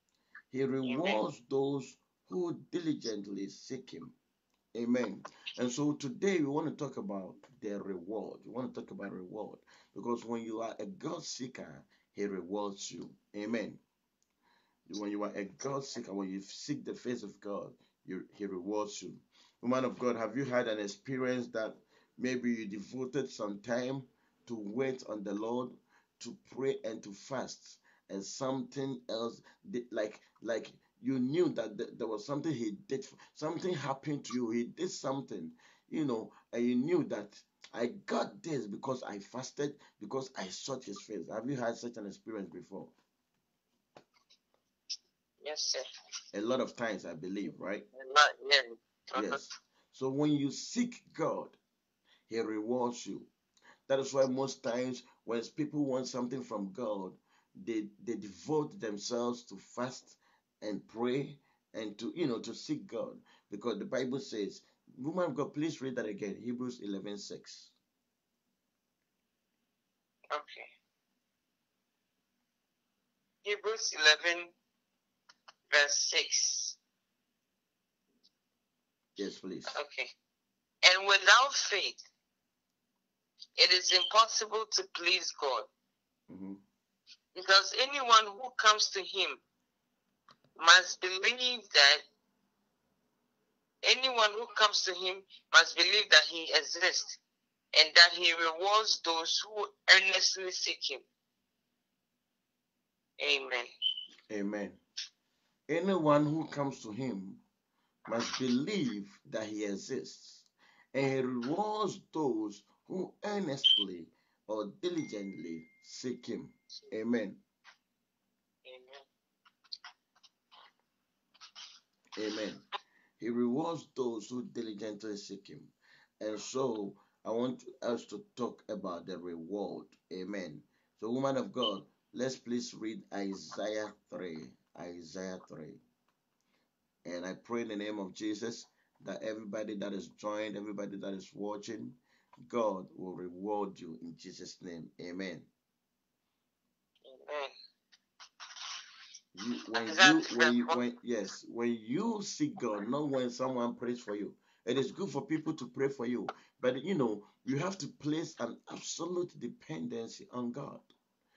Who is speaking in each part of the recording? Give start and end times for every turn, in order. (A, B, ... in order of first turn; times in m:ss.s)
0:00.5-0:04.2 A
0:00.8-0:01.2 B
0:04.7-0:13.8 A
0:14.9-0:42.9 A
0:45.4-0:45.8 B
0:46.3-0:47.8 A
0:47.9-0:49.5 B
0:49.1-0:51.6 A
0:52.3-0:53.3 A
0:53.9-1:07.7 A
1:10.3-1:10.7 B
1:13.4-1:14.5 B
1:15.7-1:16.8 B
1:19.2-1:19.8 A
1:19.7-1:20.1 B
1:20.8-1:22.0 B
1:23.6-1:25.7 B
1:26.3-1:26.6 A
1:27.3-1:29.4 B
1:30.6-1:32.0 B
1:33.8-1:37.2 B
1:37.7-1:41.0 B
1:43.2-1:43.7 B
1:44.3-1:44.8 A
1:45.7-1:47.4 A
1:48.1-1:57.4 A
1:58.6-1:59.0 B
2:02.2-2:02.6 A
2:03.2-2:15.8 A
2:17.0-2:25.5 A
2:27.0-2:27.5 B
2:29.4-2:40.9 A
2:29.8-2:30.8 B